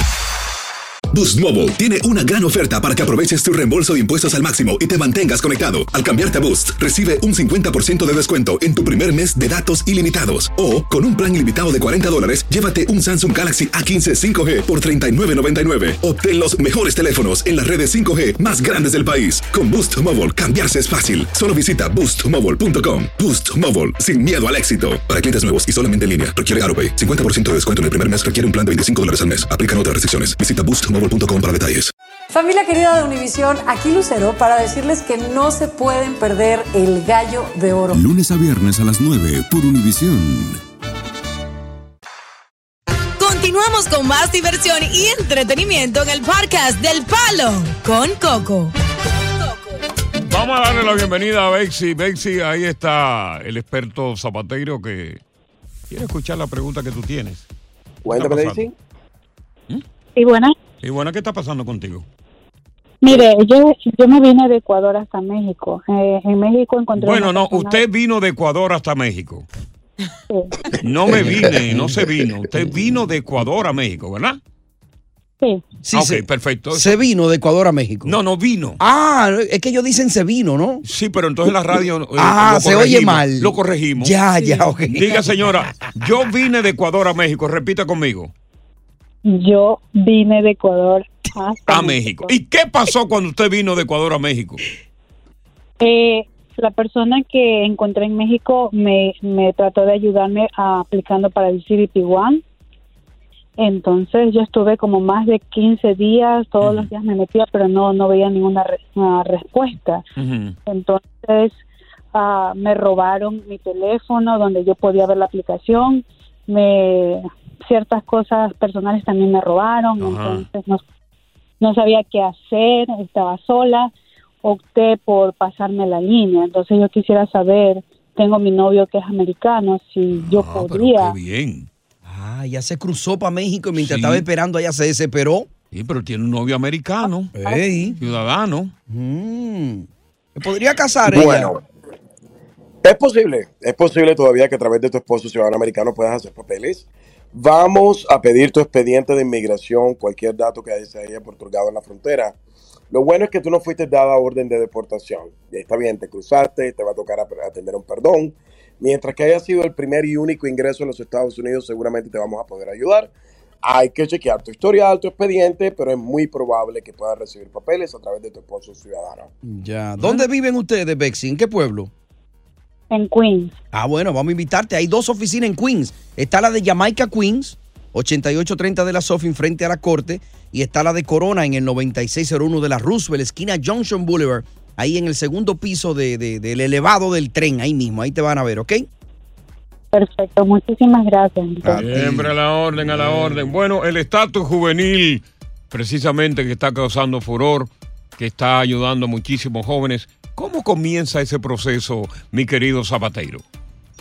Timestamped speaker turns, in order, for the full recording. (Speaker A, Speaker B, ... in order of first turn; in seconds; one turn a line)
Speaker A: 1.1-31.9
Speaker B: 32.3-38.0
Speaker C: 37.9-40.6
Speaker D: 43.2-49.8
Speaker E: 50.3-55.2
Speaker E: 55.9-57.5
Speaker F: 58.0-58.8
Speaker E: 58.1-58.7
Speaker G: 60.2-60.5
Speaker E: 60.8-62.1
Speaker G: 63.0-67.9
Speaker E: 67.0-69.5
Speaker E: 70.8-74.4
Speaker H: 71.1-71.9
Speaker H: 75.8-78.2
Speaker E: 75.9-77.0
Speaker E: 78.0-78.8
Speaker H: 78.8-80.8
Speaker E: 80.8-84.2
Speaker H: 82.2-85.2
Speaker G: 84.4-84.8
Speaker E: 84.8-88.3
Speaker G: 89.2-92.4
Speaker E: 91.7-94.6
Speaker G: 95.8-102.4
Speaker G: 103.6-110.0
Speaker E: 106.6-106.9
Speaker E: 110.2-110.6
Speaker G: 110.7-111.5
Speaker G: 112.1-120.8
Speaker E: 120.0-120.5
Speaker G: 121.6-123.9
Speaker G: 124.4-131.2
Speaker E: 130.1-131.7
Speaker H: 132.1-135.5
Speaker E: 133.8-134.3
Speaker E: 135.7-137.3
Speaker G: 137.1-137.9
Speaker H: 137.3-137.9
Speaker E: 138.0-138.7
Speaker H: 138.9-141.6
Speaker F: 141.1-141.6
Speaker F: 142.8-152.4
Speaker F: 152.9-163.1
Speaker F: 163.6-169.3
Speaker H: 169.4-171.9
Speaker G: 172.9-173.6
Speaker H: 173.7-188.9
Speaker G: 189.9-191.7
Speaker H: 191.6-192.3
Speaker E: 191.7-203.4